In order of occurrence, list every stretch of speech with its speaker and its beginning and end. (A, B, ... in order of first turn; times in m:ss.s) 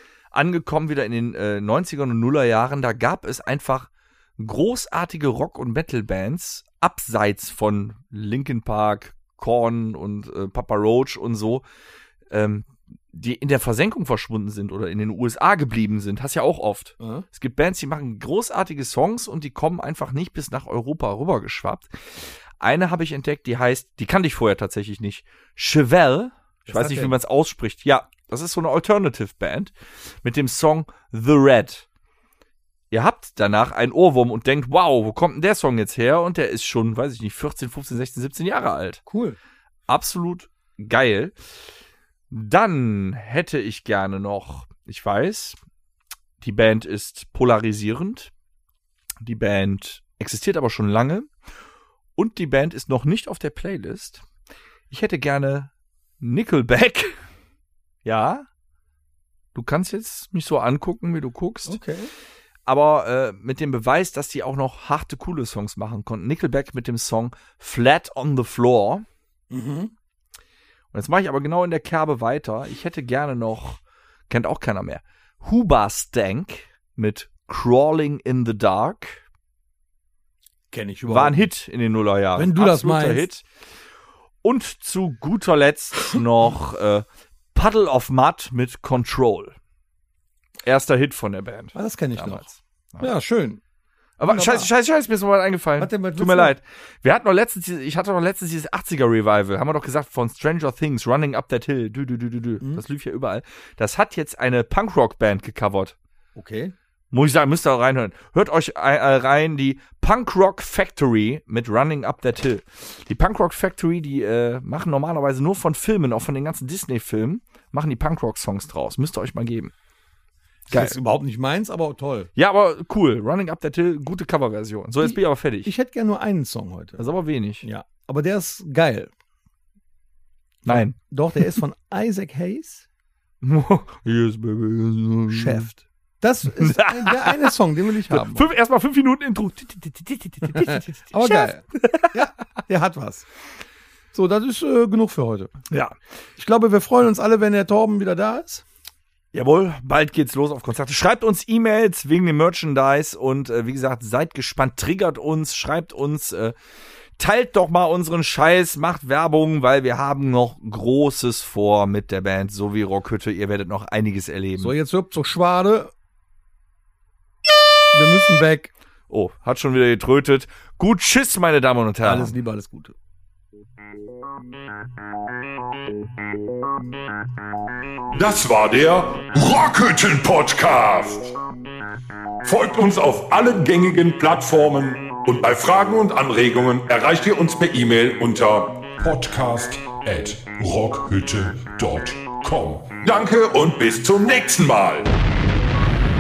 0:00.3-0:11.6 A
0:12.3-0:31.9 A
0:17.0-0:17.2 B
0:26.7-0:27.2 B
0:32.9-0:39.0 A
0:39.1-0:39.4 B
0:39.9-0:41.4 A
0:42.3-0:45.6 A
0:46.4-0:48.3 A
0:49.2-0:51.3 A
0:52.2-0:54.2 A
0:54.9-0:57.2 A
0:58.0-0:58.5 A
0:59.6-1:01.8 A
1:01.7-1:02.1 B
1:02.7-1:09.1 A
1:09.5-1:09.9 B
1:10.9-1:19.2 A
1:20.7-1:21.5 B
1:21.1-1:23.4 A
1:22.4-1:23.3 B
1:24.4-1:29.6 A
1:30.6-1:33.1 A
1:31.7-1:33.6 B
1:34.2-1:46.0 A
1:34.2-1:34.7 B
1:35.8-1:36.6 B
1:46.4-1:46.7 B
1:47.1-1:59.7 A
2:00.7-2:02.3 B
2:00.7-2:01.0 A
2:02.4-2:05.7 A
2:05.0-2:07.1 B
2:07.0-2:07.7 A
2:07.6-2:09.1 B
2:10.6-2:12.9 B
2:10.7-2:11.6 A
2:13.4-2:15.7 A
2:15.3-2:18.5 B
2:16.6-2:17.5 A
2:18.1-2:22.2 A
2:20.5-2:23.2 B
2:24.1-2:25.5 B
2:26.4-2:28.6 B
2:29.3-2:36.6 A
2:37.2-2:44.8 A
2:44.6-2:45.9 B
2:47.9-2:48.7 B
2:49.1-2:52.4 A
2:52.0-2:53.0 B
2:58.2-3:01.2 C
3:02.5-3:15.0 C